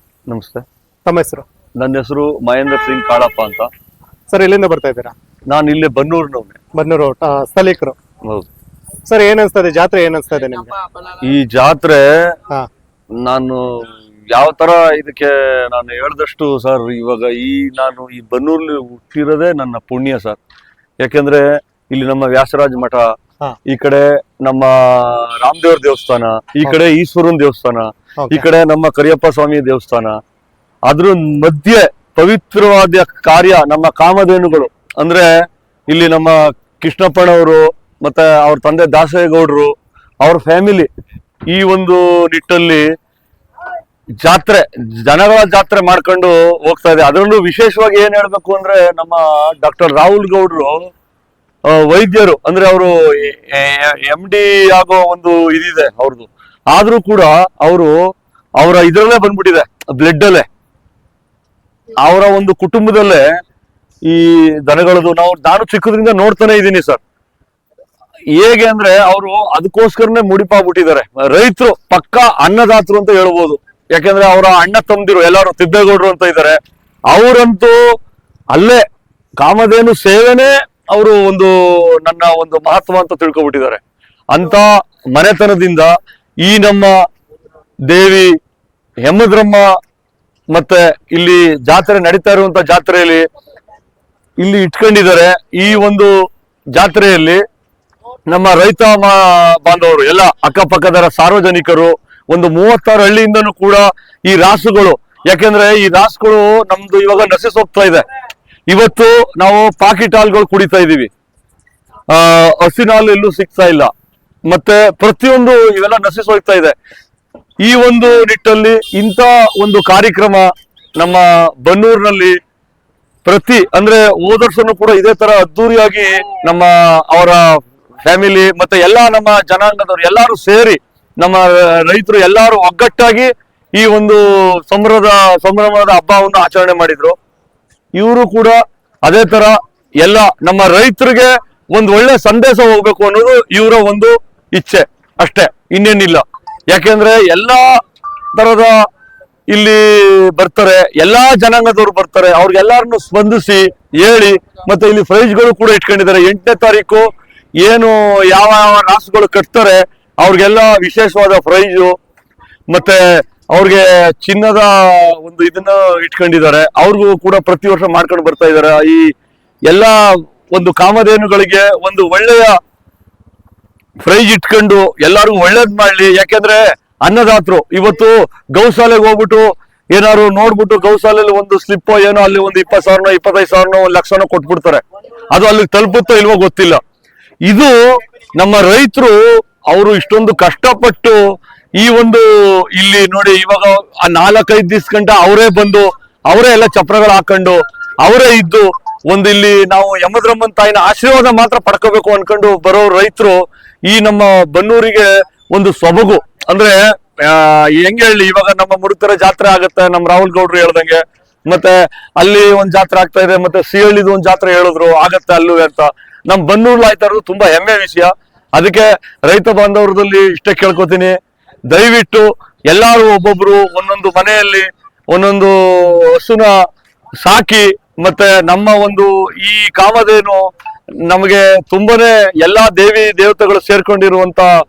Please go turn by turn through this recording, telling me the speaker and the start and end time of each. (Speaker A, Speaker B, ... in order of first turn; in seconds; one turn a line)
Speaker A: 0.3-0.7
Speaker B: 1.1-1.4
Speaker A: 1.8-3.7
Speaker B: 4.3-5.1
Speaker A: 5.5-6.6
Speaker B: 6.8-8.0
Speaker B: 9.1-10.8
Speaker A: 11.2-12.1
Speaker A: 13.2-20.4
Speaker A: 21.0-23.1
Speaker A: 23.7-30.2
Speaker B: 28.2-28.5
Speaker A: 30.9-35.3
Speaker A: 35.9-39.7
Speaker A: 40.2-40.9
Speaker A: 41.5-42.9
Speaker A: 44.2-50.8
Speaker A: 51.7-58.0
Speaker A: 58.6-60.5
Speaker A: 62.0-63.2
Speaker A: 64.1-67.0
Speaker A: 68.4-76.6
Speaker A: 77.1-77.8
Speaker A: 78.5-78.8
Speaker A: 79.4-83.8
Speaker A: 84.3-85.9
Speaker A: 86.4-86.9
Speaker A: 87.9-88.3
Speaker A: 89.0-89.7
Speaker A: 90.5-93.2
Speaker A: 94.4-96.1
Speaker A: 96.7-97.4
Speaker A: 98.3-108.0
Speaker A: 108.7-111.1
Speaker A: 112.1-113.9
Speaker A: 114.5-116.8
Speaker A: 117.6-122.4
Speaker A: 123.2-127.4
Speaker A: 128.1-137.2
Speaker A: 138.0-147.7
Speaker A: 148.3-148.7
Speaker A: 149.5-157.1
Speaker A: 157.6-161.9
Speaker A: 162.7-163.0
Speaker A: 163.5-169.1
Speaker A: 169.7-172.6
Speaker A: 174.0-186.8
Speaker A: 187.5-187.8
Speaker A: 188.4-189.2
Speaker A: 189.7-191.2
Speaker A: 191.8-221.2
Speaker A: 221.7-226.5
Speaker A: 227.2-230.4
Speaker A: 231.1-234.5